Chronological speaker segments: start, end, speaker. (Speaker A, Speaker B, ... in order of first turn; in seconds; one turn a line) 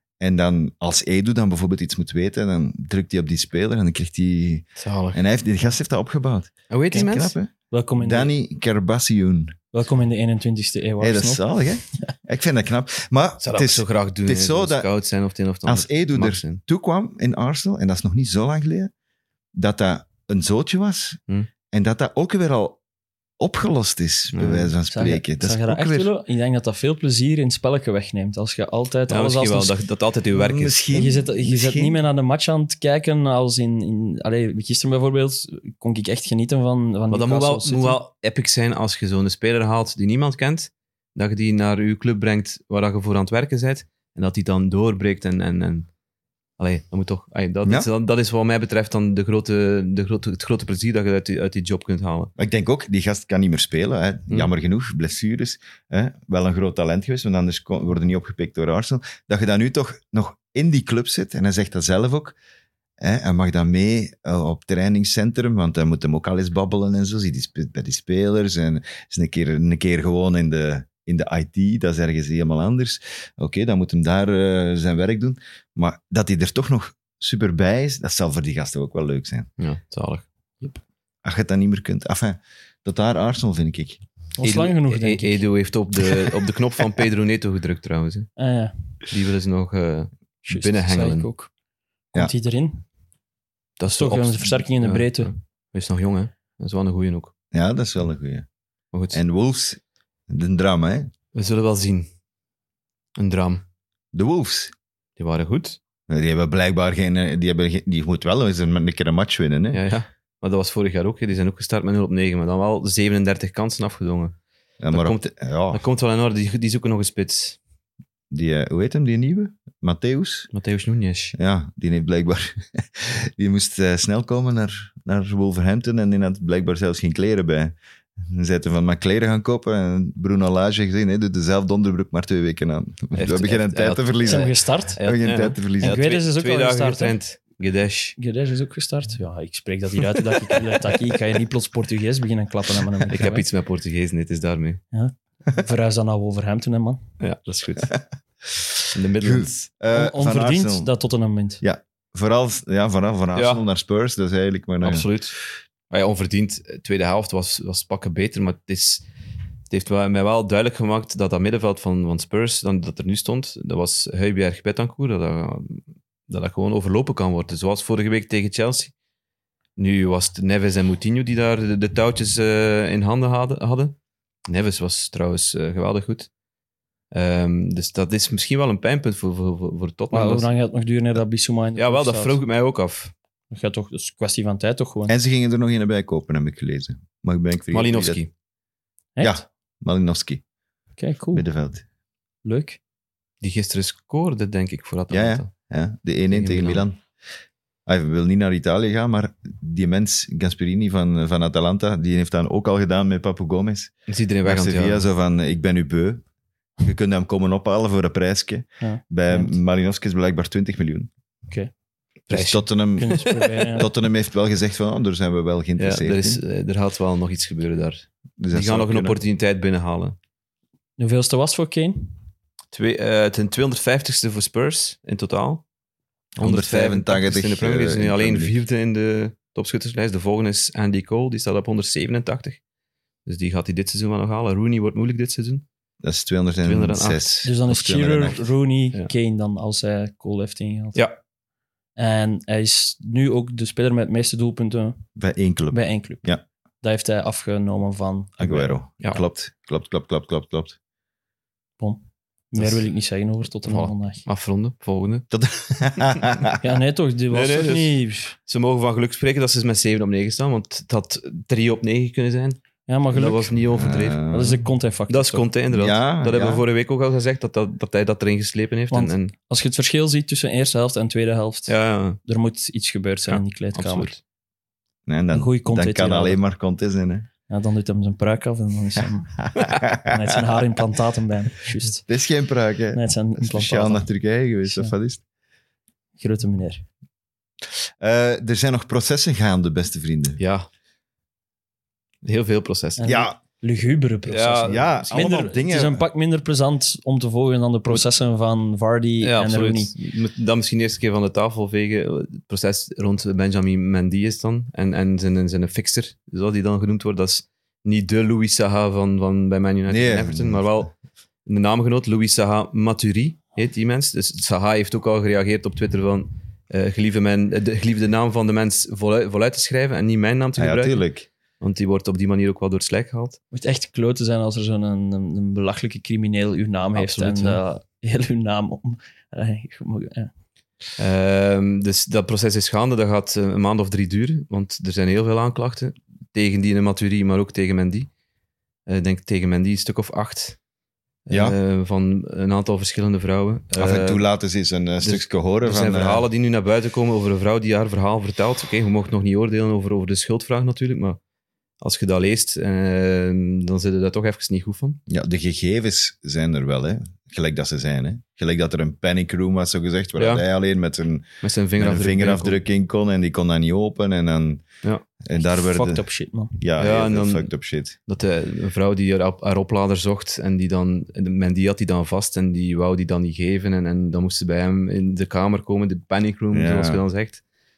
Speaker A: 0.2-9.6
Speaker B: 4.8-5.2
Speaker B: 6.7-7.3
Speaker C: 7.7-8.3
Speaker C: 9.7-11.4
Speaker A: 11.0-14.9
Speaker B: 13.4-16.6
Speaker A: 15.6-18.9
Speaker A: 19.5-21.2
Speaker A: 21.7-22.8
Speaker A: 23.4-26.1
Speaker B: 24.3-24.7
Speaker C: 24.9-29.7
Speaker B: 29.1-31.1
Speaker A: 30.3-32.0
Speaker C: 30.9-38.0
Speaker B: 37.1-45.9
Speaker B: 46.6-52.3
Speaker A: 52.4-62.4
Speaker A: 63.0-79.5
Speaker B: 79.6-80.8
Speaker A: 81.2-84.0
Speaker C: 84.4-85.4
Speaker B: 84.4-88.3
Speaker C: 88.4-88.7
Speaker B: 89.1-91.3
Speaker C: 90.4-91.5
Speaker C: 92.1-92.8
Speaker B: 93.8-97.3
Speaker C: 93.9-95.3
Speaker A: 97.5-98.5
Speaker B: 98.9-99.2
Speaker A: 99.1-101.1
Speaker B: 101.3-102.1
Speaker B: 103.2-103.6
Speaker A: 104.1-104.7
Speaker B: 105.2-105.8
Speaker A: 106.1-109.8
Speaker B: 109.7-114.4
Speaker A: 114.8-115.8
Speaker B: 114.9-117.6
Speaker A: 118.3-120.5
Speaker B: 120.5-121.3
Speaker A: 121.3-136.0
Speaker B: 133.1-134.4
Speaker C: 134.2-135.0
Speaker B: 135.0-138.2
Speaker C: 135.8-137.2
Speaker C: 138.2-143.4
Speaker B: 143.1-144.8
Speaker C: 144.9-147.0
Speaker B: 147.2-147.9
Speaker B: 148.9-149.7
Speaker A: 149.2-150.9
Speaker C: 149.9-151.6
Speaker A: 151.6-155.1
Speaker B: 153.3-153.6
Speaker B: 154.8-155.4
Speaker B: 155.9-159.0
Speaker B: 159.7-168.9
Speaker B: 169.8-173.9
Speaker B: 174.5-176.3
Speaker B: 177.1-180.5
Speaker C: 180.1-182.4
Speaker B: 181.8-183.1
Speaker C: 183.5-185.1
Speaker A: 185.1-188.2
Speaker B: 187.7-188.3
Speaker C: 189.2-189.4
Speaker A: 189.2-190.4
Speaker C: 191.0-191.4
Speaker A: 191.3-191.8
Speaker C: 192.4-192.8
Speaker B: 193.4-195.5
Speaker A: 195.1-197.0
Speaker B: 196.3-196.8
Speaker A: 197.8-203.9
Speaker B: 204.1-205.1
Speaker A: 204.4-206.2
Speaker A: 206.8-211.1
Speaker C: 208.8-209.6
Speaker B: 212.3-213.6
Speaker A: 212.3-216.4
Speaker C: 213.0-213.9
Speaker B: 215.8-220.2
Speaker A: 218.4-219.2
Speaker C: 221.0-222.2
Speaker B: 222.7-225.6
Speaker A: 226.3-228.6
Speaker B: 226.4-232.6
Speaker B: 233.2-235.6
Speaker A: 236.0-238.5
Speaker B: 236.6-237.3
Speaker C: 237.4-241.0
Speaker C: 242.0-245.0
Speaker A: 245.2-246.4
Speaker C: 245.7-246.3
Speaker C: 246.8-248.8
Speaker A: 248.4-250.8
Speaker C: 251.8-254.2
Speaker B: 253.6-255.2
Speaker A: 255.3-256.6
Speaker C: 256.6-258.4
Speaker B: 257.3-262.6
Speaker C: 262.9-263.5
Speaker B: 263.1-264.3
Speaker A: 263.7-264.6
Speaker C: 264.3-265.4
Speaker B: 265.1-269.3
Speaker A: 265.7-266.6
Speaker C: 268.9-274.1
Speaker B: 271.7-272.2
Speaker B: 273.3-274.2
Speaker A: 275.1-277.3
Speaker C: 275.3-276.4
Speaker C: 277.5-282.0
Speaker A: 279.6-280.1
Speaker A: 282.1-285.2
Speaker C: 282.9-284.1
Speaker C: 284.6-284.9
Speaker C: 286.2-286.8
Speaker A: 288.0-290.4
Speaker B: 290.4-290.7
Speaker B: 292.2-293.1
Speaker C: 293.0-299.9
Speaker A: 293.0-293.4
Speaker B: 294.3-294.9
Speaker A: 294.6-296.0
Speaker B: 299.2-310.9
Speaker A: 309.9-310.9
Speaker B: 311.4-321.0
Speaker A: 320.6-321.3
Speaker B: 321.6-323.4
Speaker C: 323.5-330.3
Speaker B: 326.9-327.6
Speaker B: 331.0-338.1
Speaker B: 338.9-340.6
Speaker B: 341.3-344.2
Speaker A: 341.3-341.6
Speaker A: 343.8-346.2
Speaker B: 345.0-351.2
Speaker B: 351.8-355.0
Speaker A: 355.1-364.6
Speaker B: 360.2-360.4
Speaker B: 361.4-362.6
Speaker A: 365.2-366.0
Speaker C: 365.3-366.6
Speaker A: 366.6-367.9
Speaker B: 366.8-367.5
Speaker B: 368.1-377.4
Speaker A: 376.5-377.0